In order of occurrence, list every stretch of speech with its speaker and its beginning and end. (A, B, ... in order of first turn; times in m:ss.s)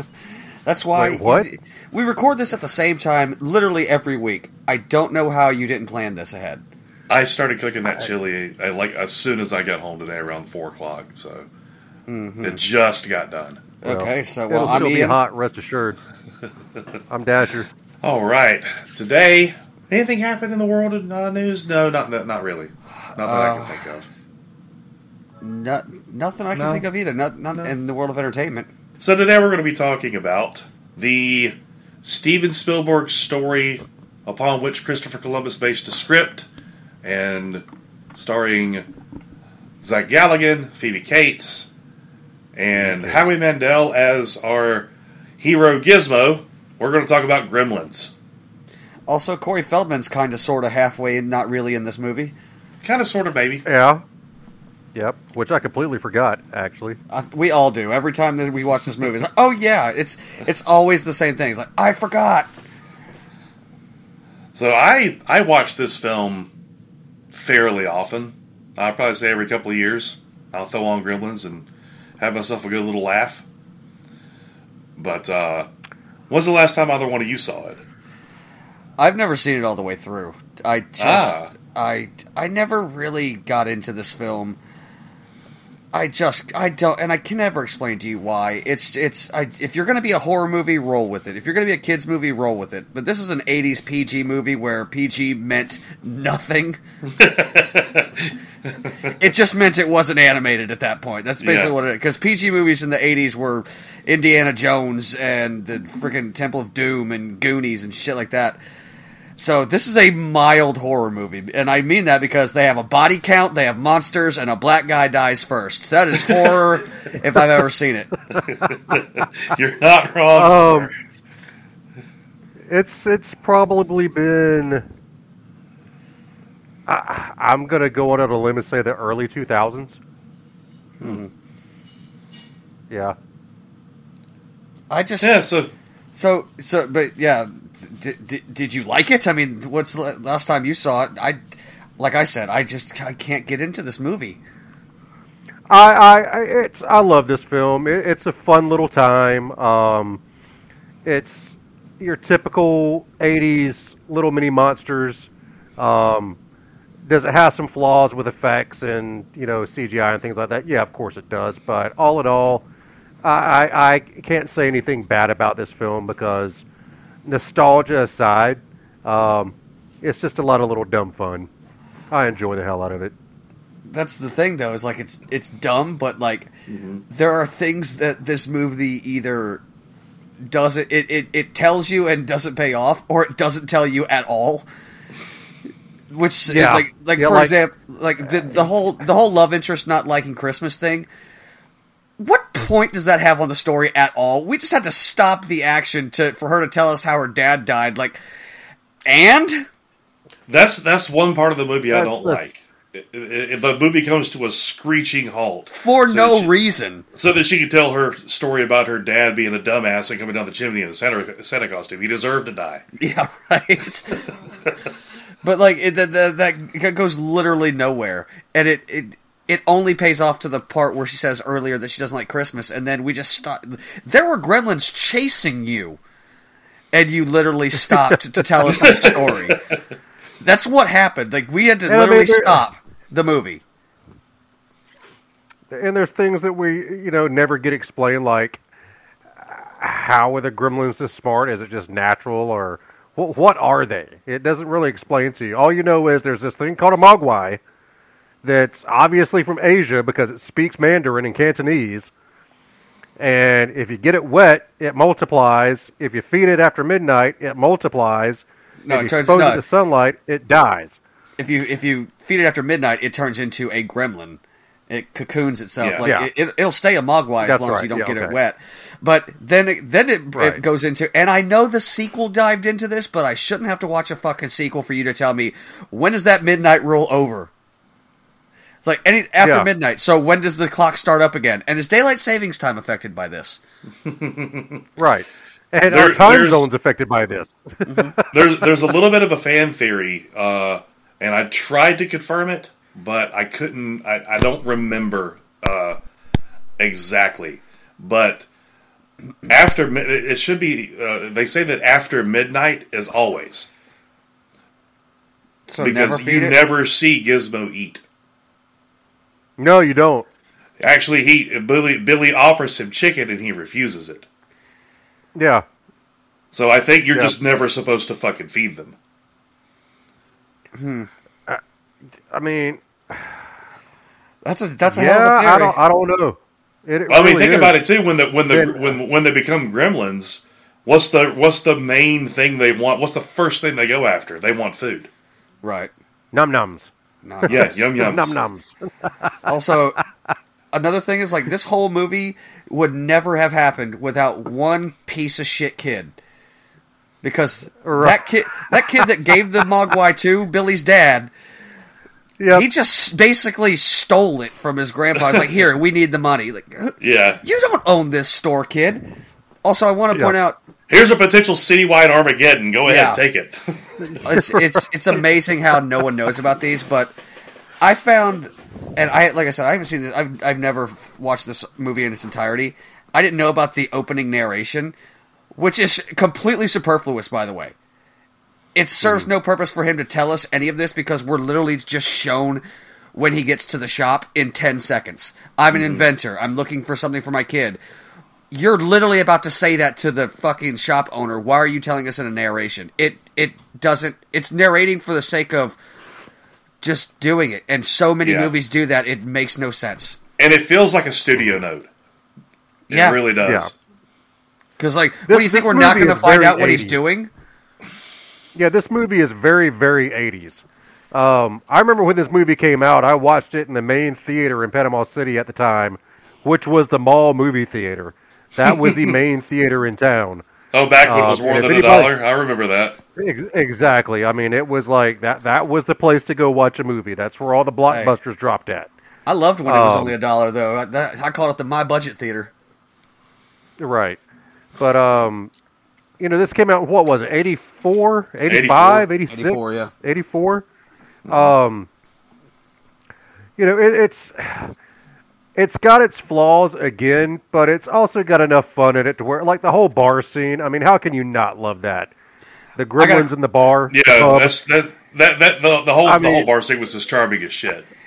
0:00.7-0:06.6 A
0:01.0-0:01.5 B
0:07.1-0:11.5 C
0:12.1-0:12.6 A
0:12.4-0:13.6 C
0:13.8-0:15.2 A
0:13.8-0:16.0 B
0:17.1-0:17.7 B
0:18.0-0:24.1 C
0:23.2-0:23.8 A
0:25.4-0:28.7 A
0:26.5-0:26.9 C
0:29.0-0:36.5 C
0:37.0-0:38.9 C
0:39.8-0:41.7 C
0:42.6-0:44.9 C
0:42.8-0:43.3 B
0:45.4-0:48.1 C
0:49.1-0:52.3 A
0:52.8-0:53.7 C
0:53.7-0:54.0 B
0:55.0-0:57.0 B
0:57.1-1:02.5 A
1:04.6-1:06.5 C
1:07.3-1:11.7 C
1:12.2-1:13.4 C
1:15.0-1:15.7 C
1:16.3-1:17.8 C
1:19.0-1:24.6 A
1:21.0-1:21.5 C
1:25.9-1:36.8 A
1:37.2-1:39.2 C
1:39.2-1:48.6 A
1:41.4-1:41.8 C
1:49.4-1:58.1 A
1:58.3-2:01.0 C
2:00.4-2:00.9 B
2:02.7-2:04.9 B
2:06.9-2:10.0 B
2:11.0-2:11.3 A
2:12.9-2:13.2 B
2:14.9-2:15.3 A
2:15.2-2:15.7 C
2:16.1-2:21.4 A
2:22.0-2:24.4 A
2:25.7-2:30.2 B
2:31.0-2:36.4 B
2:37.0-2:42.6 B
2:43.2-2:46.6 B
2:47.2-2:51.5 B
2:52.1-2:53.1 B
2:53.9-2:56.5 A
2:56.7-2:57.0 C
2:57.1-2:59.6 A
3:00.4-3:04.7 A
3:06.1-3:11.1 A
3:06.5-3:07.5 B
3:12.2-3:18.2 A
3:19.1-3:19.7 A
3:20.5-3:26.5 C
3:21.9-3:22.4 B
3:25.7-3:27.0 A
3:27.2-3:32.8 C
3:33.0-3:34.3 A
3:35.4-3:46.0 A
3:46.9-3:49.6 A
3:47.9-3:48.4 B
3:48.6-3:49.8 C
3:50.4-3:53.6 A
3:51.9-3:52.6 B
3:55.7-3:58.6 B
3:59.4-4:07.6 B
4:08.4-4:12.1 B
4:13.2-4:21.0 B
4:18.8-4:19.6 A
4:21.4-4:37.5 A
4:25.8-4:26.1 C
4:26.0-4:26.3 B
4:27.4-4:28.4 B
4:38.8-4:43.6 A
4:39.4-4:39.7 B
4:44.0-4:44.8 C
4:45.0-4:48.7 B
4:45.9-4:46.7 C
4:47.8-4:48.2 A
4:48.3-4:56.0 C
4:56.8-4:58.5 C
4:59.5-5:03.7 C
5:05.7-5:06.6 A
5:05.8-5:08.0 C
5:09.6-5:10.3 B
5:10.8-5:14.3 C
5:15.4-5:15.6 B
5:16.5-5:19.0 C
5:20.8-5:21.1 A
5:22.3-5:23.4 B
5:24.4-5:25.8 A
5:24.9-5:27.8 B
5:27.1-5:35.1 C
5:28.5-5:29.0 B
5:35.6-5:35.9 A
5:36.3-5:36.9 B
5:37.2-5:37.9 A
5:37.4-5:39.4 B
5:37.5-5:38.4 C
5:39.4-5:40.0 A
5:40.7-5:46.2 A
5:47.2-5:51.3 A
5:47.8-5:49.1 B
5:52.4-5:52.7 B
5:52.5-5:59.1 A
5:57.0-5:57.4 C
5:59.6-6:00.6 A
6:00.9-6:04.2 C
6:02.9-6:03.2 A
6:04.2-6:07.2 A
6:04.3-6:04.8 B
6:07.8-6:15.0 A
6:15.6-6:17.7 A
6:18.8-6:22.6 A
6:23.2-6:27.8 A
6:25.7-6:26.0 C
6:28.5-6:35.8 A
6:36.8-6:40.2 A
6:38.2-6:38.5 C
6:40.4-6:41.9 C
6:42.9-6:43.2 A
6:42.9-6:43.8 C
6:43.4-6:43.7 B
6:44.8-6:47.3 A
6:45.3-6:47.0 B
6:48.6-7:00.4 B
6:58.6-6:59.2 C
7:00.7-7:03.0 C
7:01.0-7:02.2 B
7:03.2-7:08.9 B
7:09.3-7:12.5 A
7:09.7-7:10.2 B
7:13.8-7:14.2 B
7:14.8-7:15.5 B
7:16.2-7:20.7 B
7:18.5-7:19.1 C
7:19.3-7:19.9 A
7:21.3-7:21.5 C
7:21.3-7:21.9 B
7:23.6-7:24.8 B
7:25.6-7:32.1 B
7:32.8-7:34.5 B
7:33.0-7:33.3 A
7:33.9-7:37.9 C
7:36.0-7:36.5 B